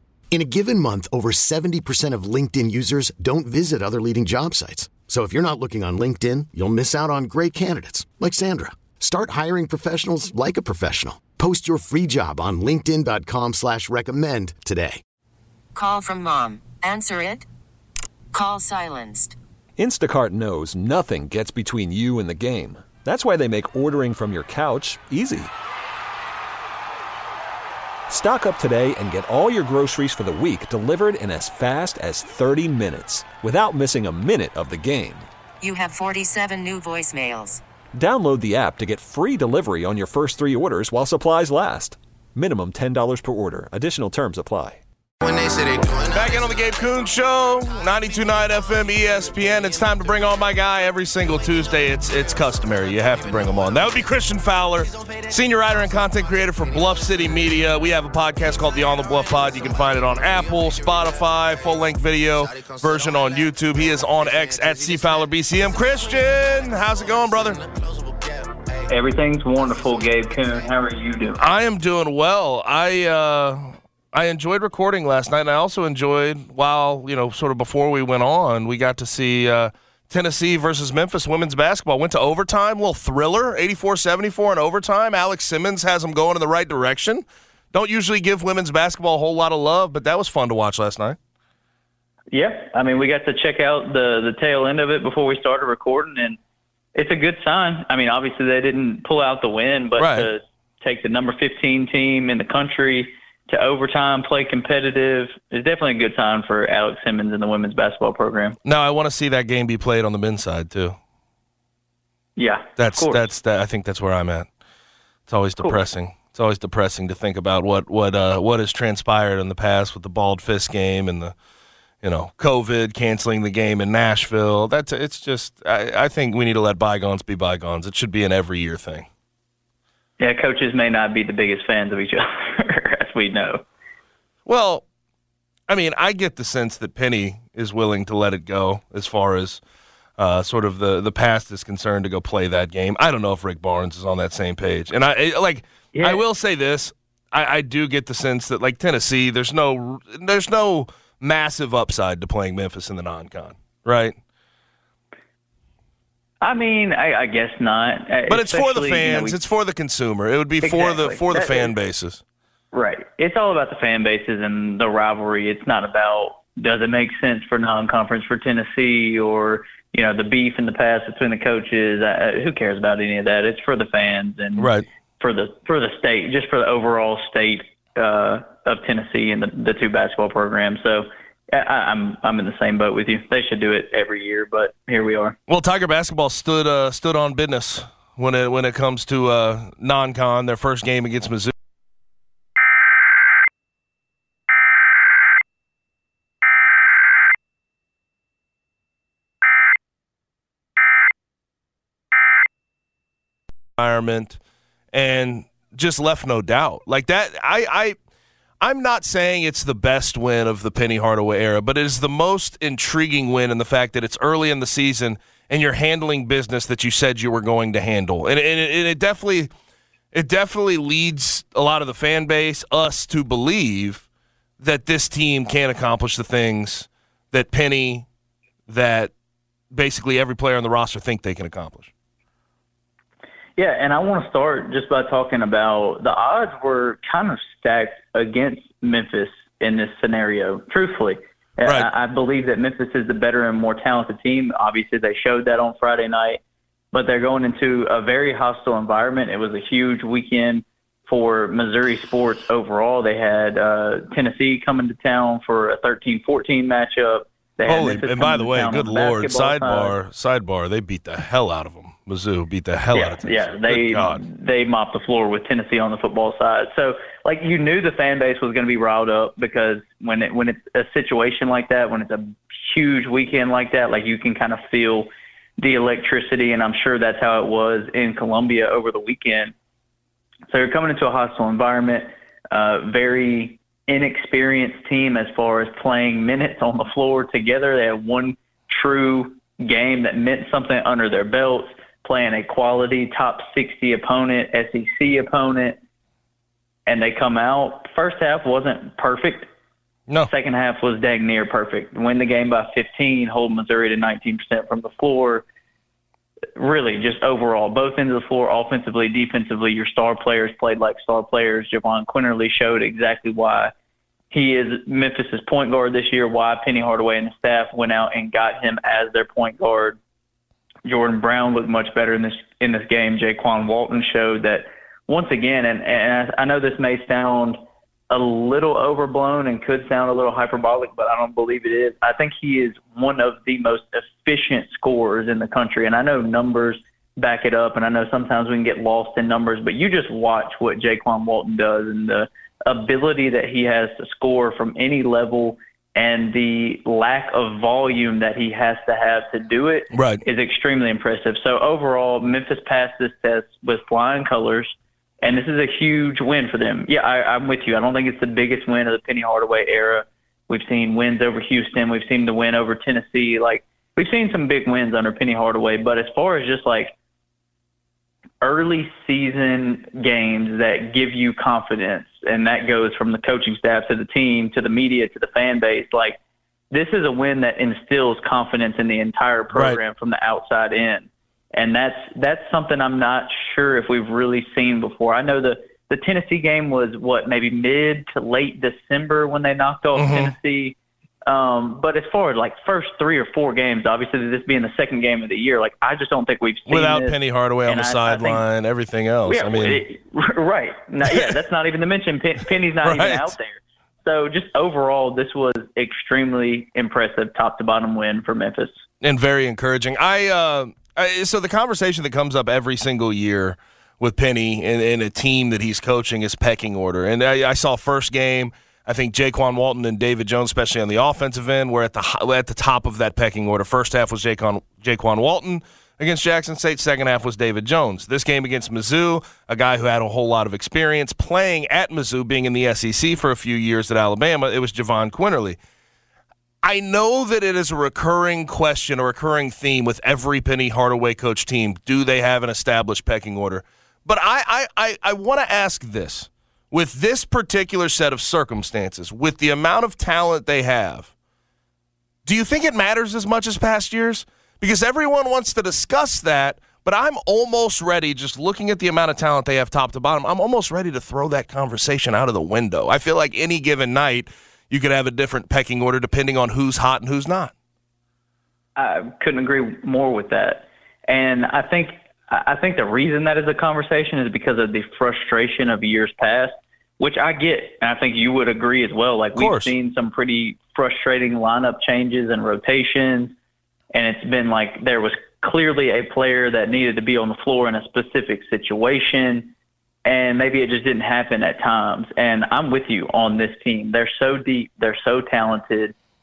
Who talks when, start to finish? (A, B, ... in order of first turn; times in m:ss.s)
0:00.3-0:15.0 A
0:15.8-0:17.5 B
0:18.3-0:19.4 B
0:19.8-0:25.5 C
0:28.1-0:35.3 C
0:35.6-0:37.6 B
0:38.0-0:44.8 C
0:45.2-1:08.9 D
0:46.1-1:07.6 E
1:08.9-1:11.4 F
1:09.5-1:10.8 D
1:11.4-1:31.2 E
1:32.3-1:36.4 F
1:37.0-1:48.6 F
1:40.0-1:40.3 E
1:48.6-1:51.0 E
1:52.4-1:53.2 F
1:52.8-1:54.5 E
1:55.3-2:01.3 E
2:02.0-2:09.1 E
2:10.2-2:13.6 F
2:14.5-2:14.8 E
2:15.7-2:19.6 E
2:20.2-2:34.2 E
2:25.9-2:26.2 F
2:36.4-2:39.4 F
2:38.3-2:42.2 E
2:40.6-2:41.7 F
2:42.7-3:05.4 F
2:54.6-2:54.9 E
3:05.5-3:11.5 E
3:23.8-3:24.4 E
3:24.9-3:28.0 E
3:28.6-3:39.5 E
3:40.1-3:44.0 E
3:44.6-3:48.1 E
3:48.7-3:49.1 E
3:49.7-3:51.9 E
3:53.6-4:06.4 F
4:01.6-4:01.9 E
4:06.9-4:20.0 F
4:17.7-4:24.2 E
4:23.0-4:39.5 F
4:40.5-4:55.8 F
4:56.9-4:59.5 F
5:00.2-5:05.4 F
5:06.6-5:13.7 F
5:14.3-5:20.0 F
5:20.8-6:06.9 F
5:49.9-5:50.2 E
6:08.4-6:16.2 F
6:16.7-6:38.4 F
6:19.5-6:19.8 E
6:30.0-6:30.3 E
6:36.7-6:39.8 E
6:39.3-6:48.8 F
6:41.0-6:41.3 E
6:42.8-6:43.3 E
6:49.0-7:15.6 E
7:16.6-7:31.1 E
7:32.3-7:47.5 E
7:48.8-8:03.4 F
7:59.4-7:59.7 E
8:03.9-8:09.5 F
8:10.0-8:15.9 F